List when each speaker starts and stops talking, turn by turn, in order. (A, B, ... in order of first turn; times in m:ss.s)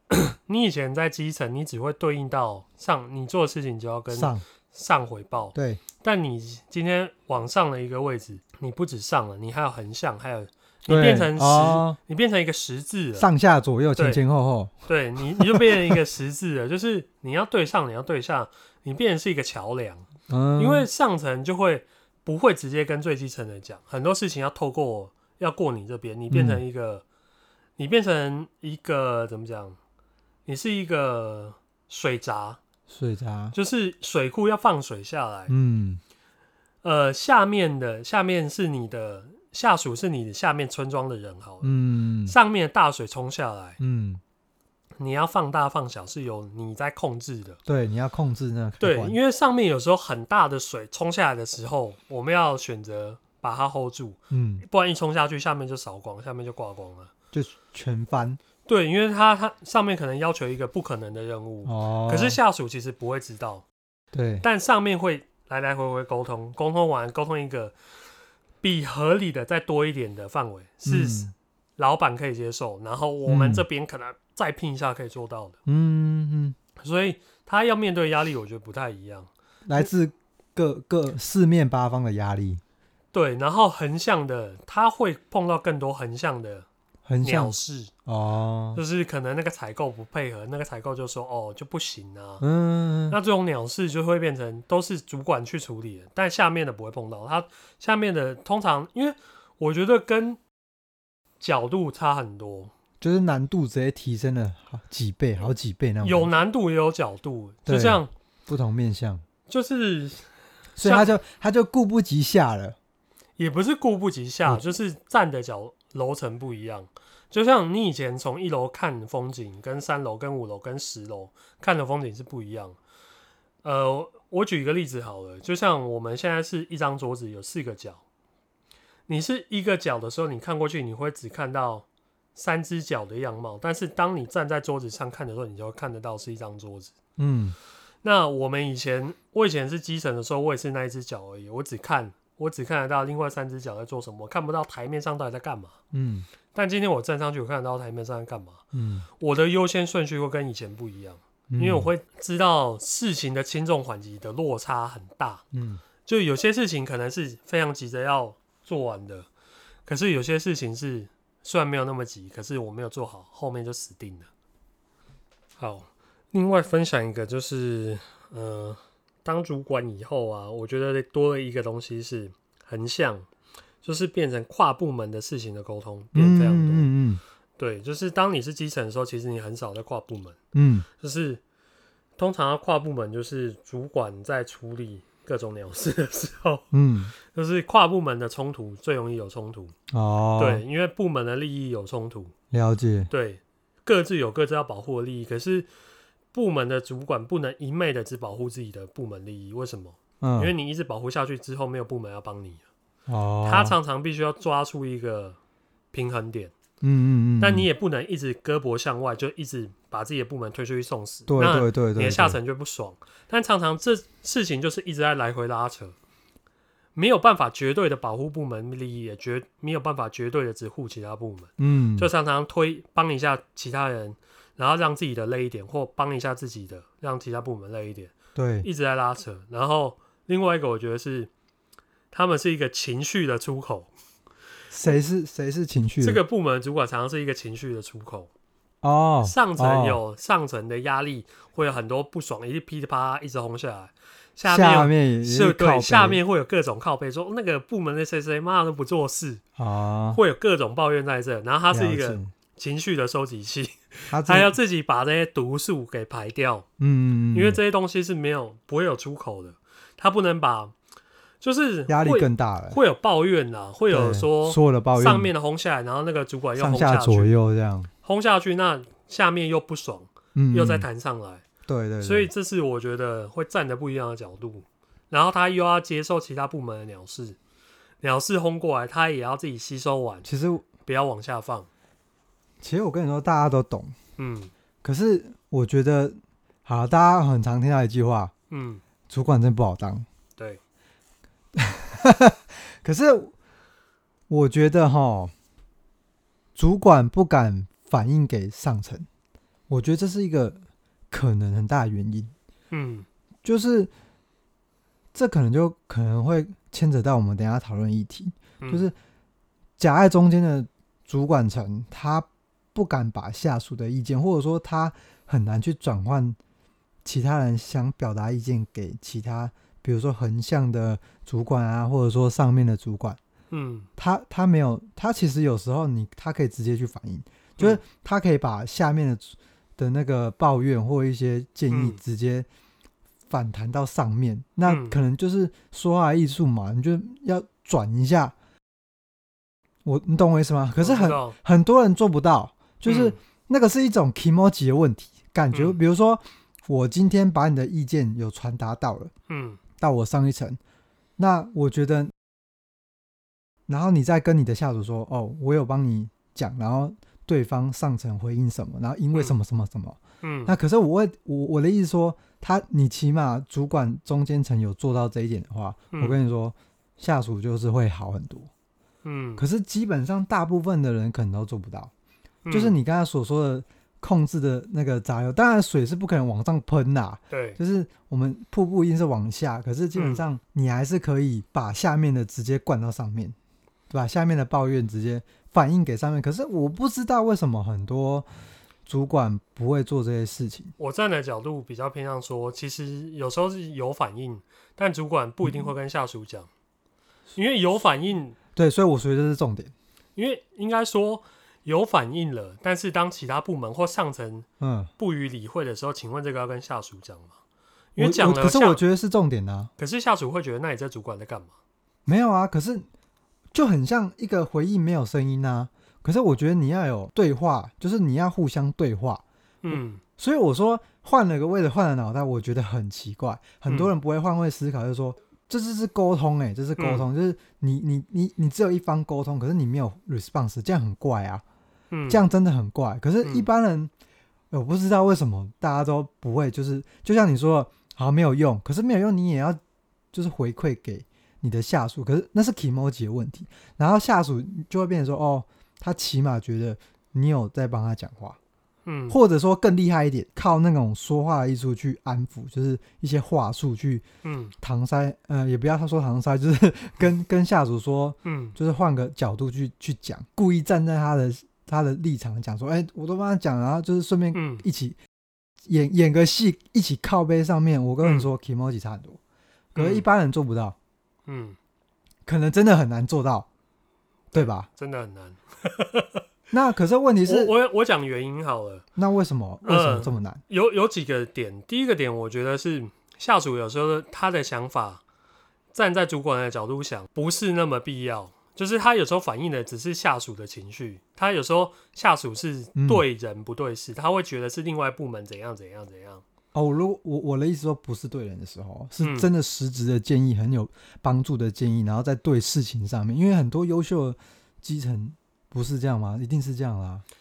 0:00.1-0:13.3 A
0:04.1-0:04.4 B
0:05.6-0:05.8 B
0:10.9-0:12.0 B
0:13.2-0:16.0 B
0:14.0-0:14.2 A
0:14.9-0:27.0 A
0:20.3-0:20.9 B
0:26.3-0:26.6 B
0:27.8-0:29.8 A
0:30.5-0:32.6 A
0:32.9-0:33.6 B
0:33.5-0:35.5 A
0:35.5-0:36.0 B
0:36.8-0:41.7 A
0:41.6-0:42.4 B
0:42.3-0:43.8 A
0:43.8-0:44.2 B
0:45.0-0:47.6 A
0:47.7-0:49.2 B
0:48.8-0:57.1 A
0:54.3-0:54.6 B
0:57.3-0:58.4 B
0:58.7-1:03.6 A
1:01.6-1:02.4 B
1:04.1-1:04.4 B
1:04.4-1:07.8 A
1:08.6-1:15.6 A
1:10.8-1:11.3 B
1:13.3-1:13.6 B
1:15.7-1:16.6 B
1:16.8-1:19.9 A
1:19.7-1:22.6 B
1:23.1-1:26.7 A
1:27.1-1:28.8 B
1:27.2-1:27.9 A
1:28.7-1:32.4 A
1:32.4-1:33.2 B
1:33.1-1:40.4 A
1:41.4-1:42.7 A
1:43.0-1:46.3 B
1:46.0-1:48.1 A
1:47.7-1:49.2 B
1:49.5-1:50.3 A
1:50.8-1:52.8 B
1:50.8-1:51.2 A
1:53.4-2:02.8 A
2:03.6-2:08.0 A
2:09.1-2:16.9 A
2:17.2-2:17.6 B
2:18.0-2:25.8 A
2:25.9-2:26.3 B
2:26.5-2:28.6 A
2:28.7-2:29.1 B
2:29.2-2:35.4 A
2:31.5-2:31.9 B
2:35.5-2:35.8 B
2:36.1-2:39.3 A
2:39.9-2:44.3 A
2:45.6-2:53.3 A
2:53.8-2:56.9 A
2:56.1-2:57.2 B
2:57.6-3:00.4 A
3:00.5-3:00.9 B
3:01.0-3:01.4 A
3:02.2-3:06.7 A
3:06.7-3:07.1 B
3:07.2-3:09.7 A
3:09.9-3:10.6 B
3:10.4-3:12.3 A
3:12.5-3:13.1 B
3:13.1-3:15.7 A
3:16.3-3:22.6 A
3:20.2-3:20.5 B
3:23.1-3:23.8 B
3:23.4-3:25.4 A
3:25.9-3:26.5 A
3:26.8-3:27.7 B
3:27.4-3:36.0 A
3:31.3-3:32.4 B
3:37.0-3:51.3 A
3:41.6-3:42.1 B
3:48.4-3:48.7 B
3:52.1-3:53.9 A
3:54.7-3:56.2 B
3:56.0-3:58.3 A
3:58.8-4:00.0 B
3:59.2-4:09.4 A
4:04.4-4:06.2 B
4:09.6-4:10.2 B
4:10.1-4:16.7 A
4:11.7-4:12.3 B
4:14.1-4:14.5 B
4:16.8-4:17.6 B
4:17.3-4:20.7 A
4:21.4-4:27.3 A
4:21.9-4:22.8 B
4:23.9-4:25.3 B
4:26.6-4:27.9 B
4:28.0-4:31.4 A
4:30.4-4:30.8 B
4:31.7-4:32.3 B
4:32.0-4:37.4 A
4:38.0-4:40.3 A
4:40.2-4:40.6 B
4:40.8-4:41.7 A
4:42.6-4:44.0 B
4:44.2-4:44.5 A
4:44.8-4:48.3 B
4:48.5-4:48.8 A
4:49.1-4:50.1 B
4:51.6-4:53.3 B
4:54.3-4:55.3 B
4:56.6-4:59.1 B
4:59.7-5:00.6 B
5:01.1-5:02.3 B
5:02.7-5:03.1 A
5:03.4-5:03.9 B
5:05.1-5:08.9 B
5:08.6-5:08.9 A
5:09.8-5:16.4 B
5:17.0-5:23.2 B
5:23.5-5:23.9 A
5:24.0-5:32.5 B
5:31.7-5:32.0 A
5:33.3-5:38.3 B
5:34.7-5:35.0 A
5:39.8-5:49.1 B
5:40.8-5:41.4 A
5:42.9-5:43.2 A
5:45.5-5:45.8 A
5:49.3-5:49.6 A
5:49.8-5:50.6 B
5:51.2-5:52.1 B
5:53.7-6:08.5 B
6:00.2-6:00.6 A
6:05.9-6:06.2 A
6:09.0-6:09.4 A
6:09.4-6:11.9 B
6:12.5-6:12.8 A
6:12.5-6:23.4 B
6:17.3-6:17.6 A
6:20.0-6:20.2 A
6:23.9-6:28.3 B
6:28.9-6:30.7 B
6:30.8-6:36.5 A
6:35.4-6:35.7 B
6:37.4-6:38.4 A
6:38.6-6:39.7 B
6:40.2-6:44.5 A
6:44.6-6:44.9 B
6:45.0-6:47.4 A
6:48.0-6:48.8 A
6:48.0-6:49.7 B
6:49.8-6:51.5 A
6:52.1-6:52.9 B
6:53.5-7:11.4 B
6:59.6-7:00.0 A
7:03.7-7:03.9 A
7:06.8-7:07.1 A
7:11.9-7:12.2 A
7:12.1-7:13.9 B
7:14.5-7:19.6 B
7:20.1-7:28.4 B
7:28.9-7:29.2 A
7:29.1-7:34.0 B
7:34.2-7:34.5 A
7:34.6-7:45.0 B
7:38.2-7:38.6 A
7:44.3-7:44.6 A
7:45.6-7:49.2 B
7:48.0-7:48.3 A
7:49.7-7:50.8 B
7:49.8-7:50.1 A
7:51.3-7:51.6 A
7:52.3-7:53.5 B
7:54.3-7:54.7 B
7:54.3-7:56.2 A
7:56.5-7:57.5 B
7:57.3-7:58.8 A
7:59.0-8:00.4 B
7:59.6-8:05.0 A
8:05.7-8:16.2 A
8:12.8-8:13.0 B
8:16.5-8:27.0 B
8:19.0-8:19.3 A